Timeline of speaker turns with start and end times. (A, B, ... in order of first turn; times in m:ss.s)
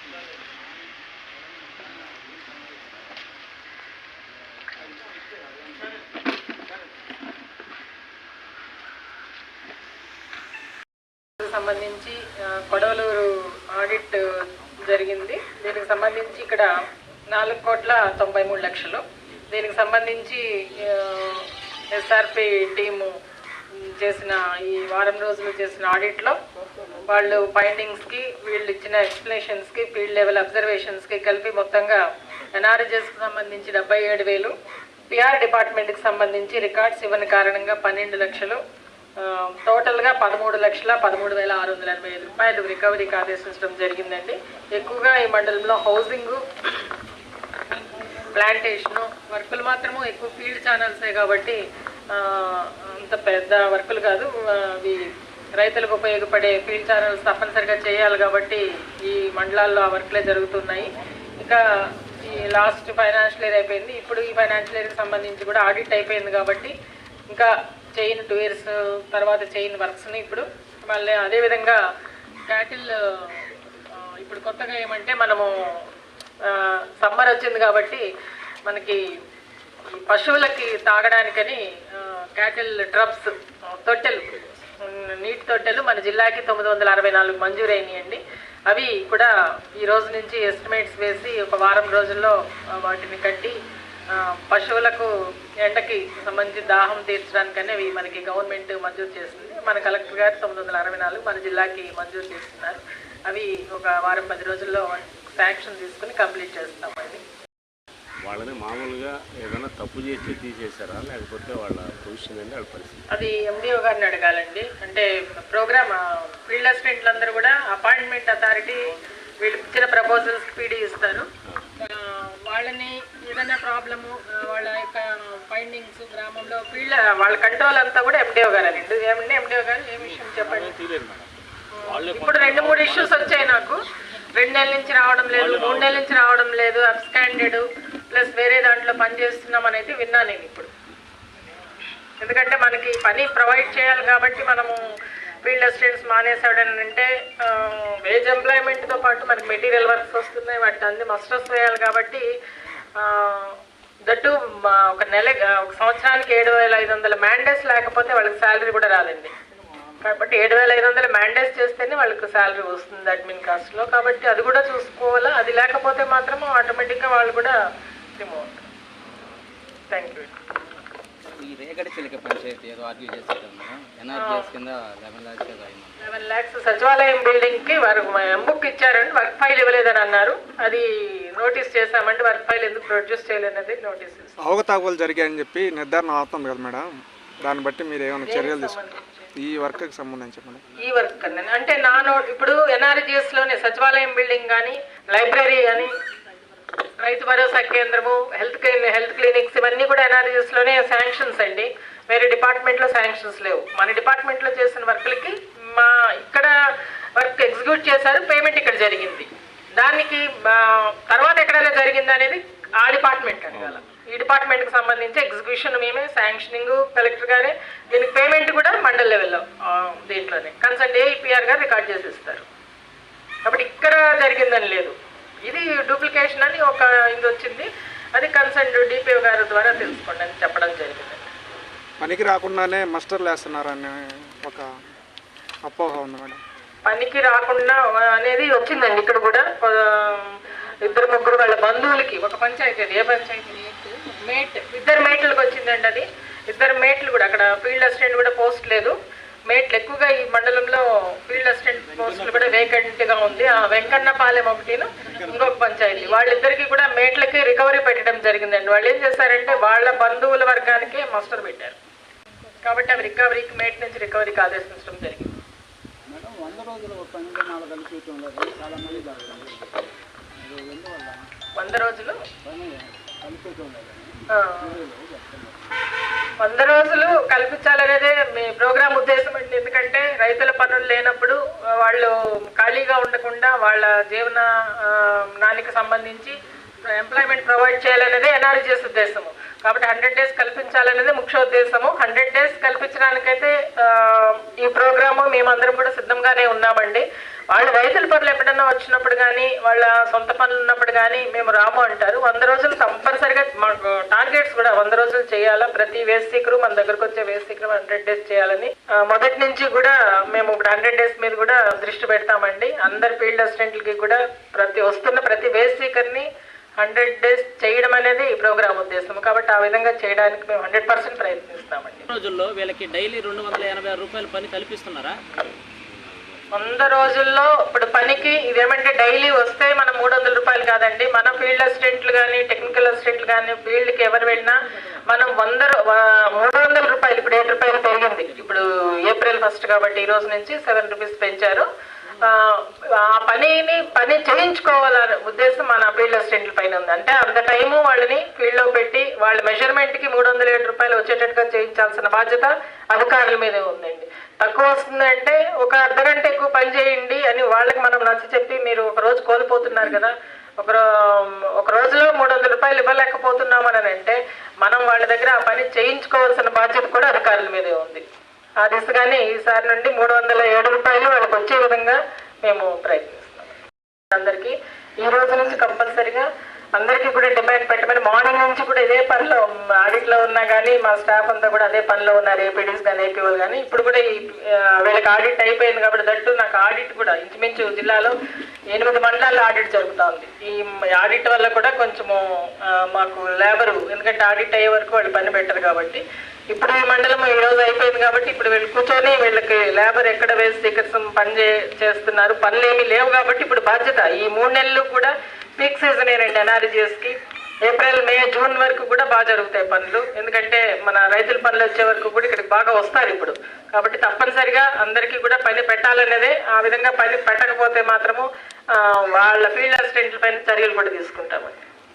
0:11.4-0:14.2 A
0:14.9-0:16.7 A
0:17.3-0:23.1 A
0:23.7-0:26.4 A
0:27.0-0:34.5 A
0:35.1-0:38.6 A
0:39.2-0:46.4 A
0:48.3-0:51.6 A
0:52.1-0:55.0 A
0:55.6-1:06.7 A
1:07.3-1:11.8 A
1:12.5-1:15.5 A
1:16.4-1:18.0 A
1:18.6-1:19.0 A
1:20.0-1:33.6 A
1:24.3-1:24.6 B
1:34.1-1:35.1 A
1:35.6-1:47.2 A
1:48.2-1:53.0 B
1:53.1-2:01.2 A
2:01.8-2:10.7 A
2:10.0-2:11.3 B
2:11.7-2:13.8 A
2:11.9-2:13.7 B
2:14.3-2:20.7 A
2:15.3-2:16.0 B
2:22.2-2:24.9 A
2:25.4-2:32.2 A
2:33.0-2:33.5 A
2:34.1-2:39.3 A
2:40.0-2:47.5 A
2:48.2-2:48.6 A
2:49.9-2:50.3 A
2:51.4-2:56.0 C
2:54.1-2:54.5 A
2:56.0-3:04.3 A
3:04.4-3:06.9 D
3:07.4-3:08.8 D
3:08.2-3:09.3 A
3:09.4-3:10.6 D
3:10.8-3:15.9 A
3:17.0-3:26.5 A
3:27.2-3:42.4 A
3:33.5-3:33.8 B
3:43.4-3:44.9 A
3:45.4-3:51.3 A
3:52.0-3:54.7 D
3:55.6-3:56.4 D
3:56.8-4:08.9 A
4:09.5-4:21.8 A
4:22.6-4:25.4 A
4:26.1-4:31.3 C
4:31.6-4:32.2 A
4:32.4-4:35.6 C
4:34.3-4:34.8 A
4:36.4-4:46.3 A
4:46.9-5:16.3 A
5:16.8-5:22.1 A
5:22.1-5:25.2 E
5:26.5-5:34.5 A
5:35.1-5:41.6 A
5:42.2-6:08.0 A
6:08.6-6:13.5 A
6:14.1-6:28.1 A
6:28.7-6:47.1 A
6:47.6-7:01.6 A